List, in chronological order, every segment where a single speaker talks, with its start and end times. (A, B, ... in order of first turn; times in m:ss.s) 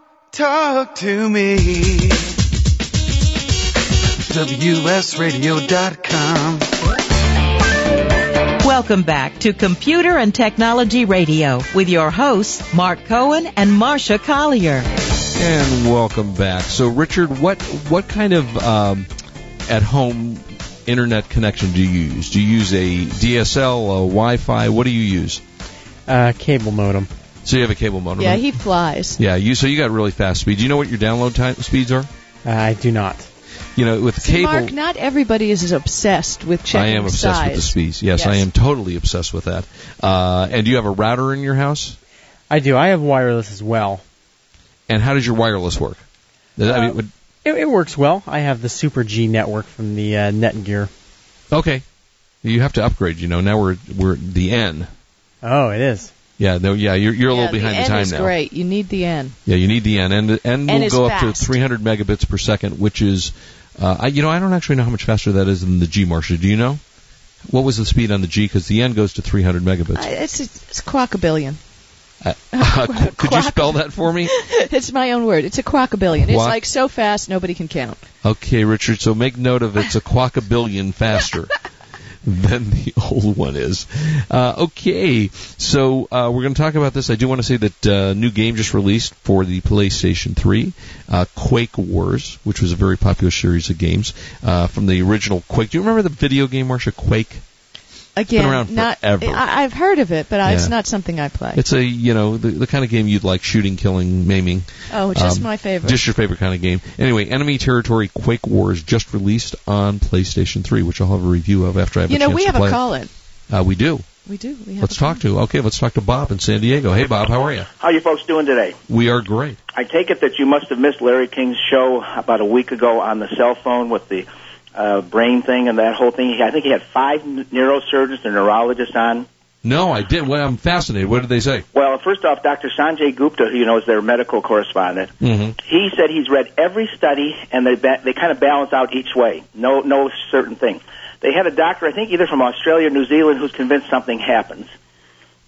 0:00.4-0:02.1 A
0:04.4-0:06.6 A
0:04.5-0:04.8 B
0:05.9-0:06.2 B
0:08.6-0:14.9 C
0:15.4-0:19.1 D
0:19.7-0:25.4 D
0:26.1-0:27.1 B
0:27.4-0:28.5 D
0:28.2-0:29.2 E
0:29.2-0:32.1 D
0:32.4-0:33.3 B
0:33.8-0:34.7 D
0:34.2-0:38.4 E
0:36.7-0:42.0 D
0:42.5-0:44.0 B
0:44.9-0:46.0 D
0:46.6-0:47.1 D
0:47.4-0:50.9 B
0:51.5-0:51.8 D
0:52.4-0:54.9 D
0:55.4-0:56.1 B
0:56.4-0:58.3 D
0:57.3-0:59.4 E
0:59.5-1:06.8 D
1:00.7-1:01.5 E
1:07.5-1:10.1 D
1:10.0-1:11.6 E
1:12.2-1:14.3 D
1:12.5-1:18.0 E
1:16.2-1:16.6 D
1:18.2-1:21.6 D
1:22.2-1:37.4 D
1:38.2-1:41.6 E
1:38.3-1:39.4 D
1:40.4-1:40.7 D
1:41.6-1:52.8 D
1:44.9-1:46.0 E
1:52.1-1:53.1 E
1:53.5-1:54.0 D
1:54.3-1:55.2 E
1:54.8-1:57.7 D
1:57.8-1:58.8 F
1:58.9-1:59.6 D
1:59.7-2:09.3 F
2:09.6-2:11.6 D
2:11.7-2:24.7 F
2:15.2-2:15.6 D